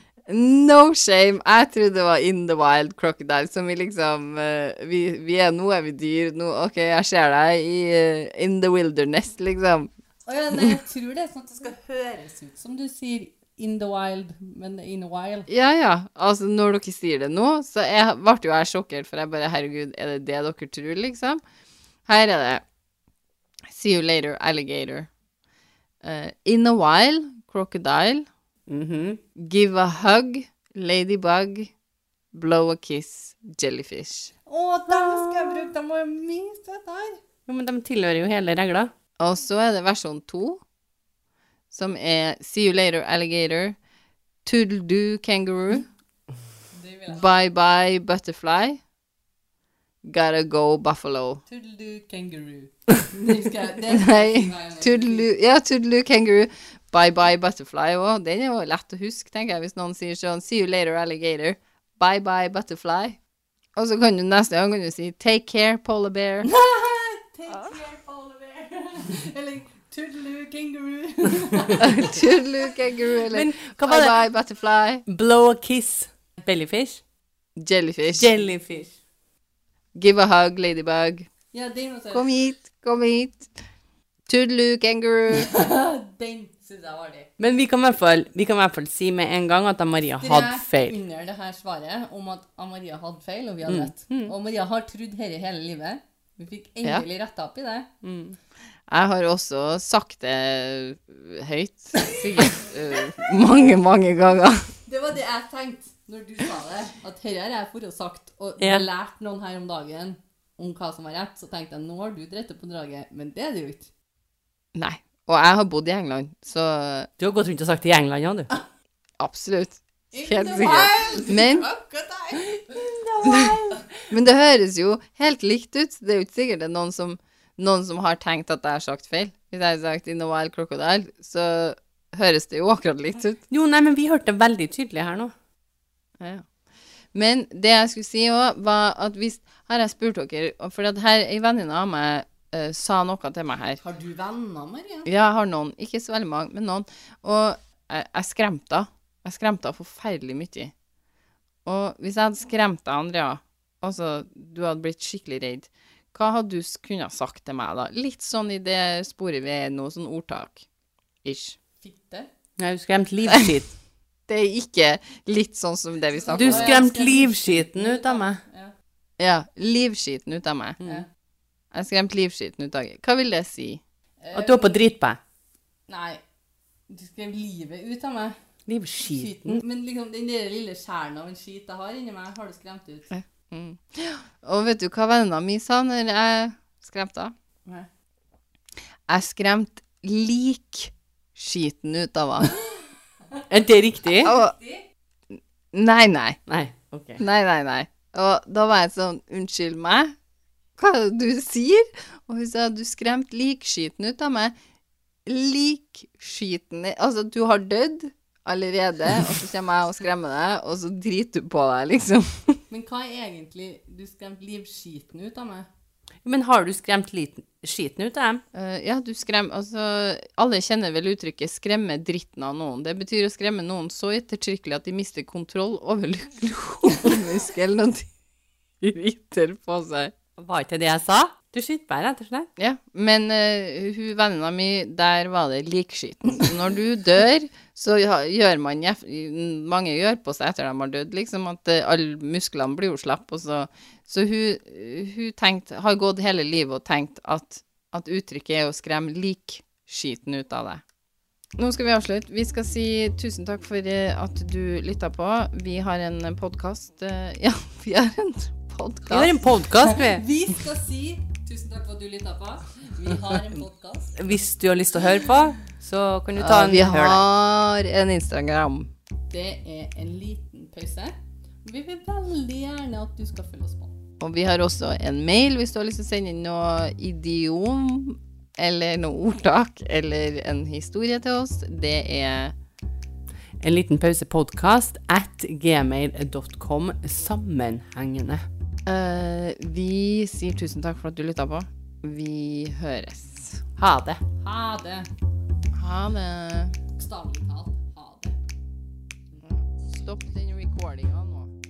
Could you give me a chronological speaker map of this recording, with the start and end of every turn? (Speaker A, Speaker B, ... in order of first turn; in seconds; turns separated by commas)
Speaker A: 0.3-9.9, Speaker B: 10.2-15.5, Speaker A: 15.5-21.4, Speaker A: 22.1-22.6, Speaker A: 23.7-25.1, Speaker A: 26.0-28.3, Speaker C: 28.7-29.2, Speaker A: 29.4-31.7, Speaker A: 32.3-34.3, Speaker B: 34.5-37.2, Speaker C: 34.9-35.7, Speaker C: 37.5-38.9, Speaker A: 39.2-40.6, Speaker A: 41.7-43.8, Speaker A: 44.4-45.9, Speaker B: 46.7-47.2, Speaker A: 47.1-48.8, Speaker A: 50.0-51.4, Speaker B: 51.5-55.2, Speaker A: 53.9-63.2, Speaker A: 63.8-66.5, Speaker B: 66.4-72.3, Speaker A: 71.8-75.0, Speaker C: 73.3-74.2, Speaker C: 75.1-77.0, Speaker A: 77.6-78.3, Speaker C: 78.1-78.9, Speaker A: 80.0-81.3, Speaker B: 81.5-82.2, Speaker A: 82.1-83.5, Speaker A: 84.3-85.5, Speaker B: 85.3-87.3, Speaker C: 87.4-91.0, Speaker B: 90.2-97.9, Speaker C: 93.6-94.3, Speaker C: 98.0-98.4, Speaker A: 98.9-104.7, Speaker B: 104.8-113.9, Speaker C: 108.6-108.9, Speaker A: 114.7-117.1, Speaker C: 117.2-118.5, Speaker A: 119.2-121.7, Speaker B: 120.1-123.5, Speaker C: 122.6-123.9, Speaker A: 124.1-133.4, Speaker C: 133.5-135.3, Speaker A: 136.2-136.5, Speaker A: 137.1-143.8, Speaker B: 143.8-145.1, Speaker A: 145.1-150.7, Speaker A: 151.6-160.7, Speaker A: 161.2-161.6, Speaker B: 161.8-162.3, Speaker C: 162.6-163.7, Speaker A: 164.3-166.8, Speaker B: 166.2-168.7, Speaker C: 166.3-168.4, Speaker A: 169.2-170.8, Speaker A: 171.7-173.8, Speaker B: 174.2-174.8, Speaker C: 174.3-175.2, Speaker B: 175.9-176.2, Speaker B: 176.9-178.3, Speaker C: 178.7-179.6, Speaker B: 179.0-183.1, Speaker A: 183.1-187.3, Speaker A: 189.1-192.6, Speaker C: 193.5-194.3, Speaker A: 194.2-194.6, Speaker B: 194.2-194.8, Speaker A: 195.7-196.4, Speaker C: 196.5-197.2, Speaker A: 197.2-200.1, Speaker A: 200.8-204.5, Speaker A: 205.2-212.6, Speaker B: 212.7-215.7, Speaker C: 216.2-218.4, Speaker A: 218.5-228.1, Speaker A: 228.8-230.1, Speaker C: 230.4-232.5, Speaker A: 232.6-250.8, Speaker A: 251.6-259.4, Speaker C: 259.1-260.2, Speaker B: 259.8-264.2, Speaker C: 264.1-267.2, Speaker A: 266.4-268.9, Speaker B: 269.3-271.1, Speaker B: 271.6-273.9, Speaker A: 274.2-282.5, Speaker C: 283.6-288.4, Speaker A: 288.9-293.6, Speaker C: 293.8-294.2, Speaker B: 294.4-295.1, Speaker A: 295.7-296.8, Speaker B: 296.9-298.4, Speaker A: 299.4-301.5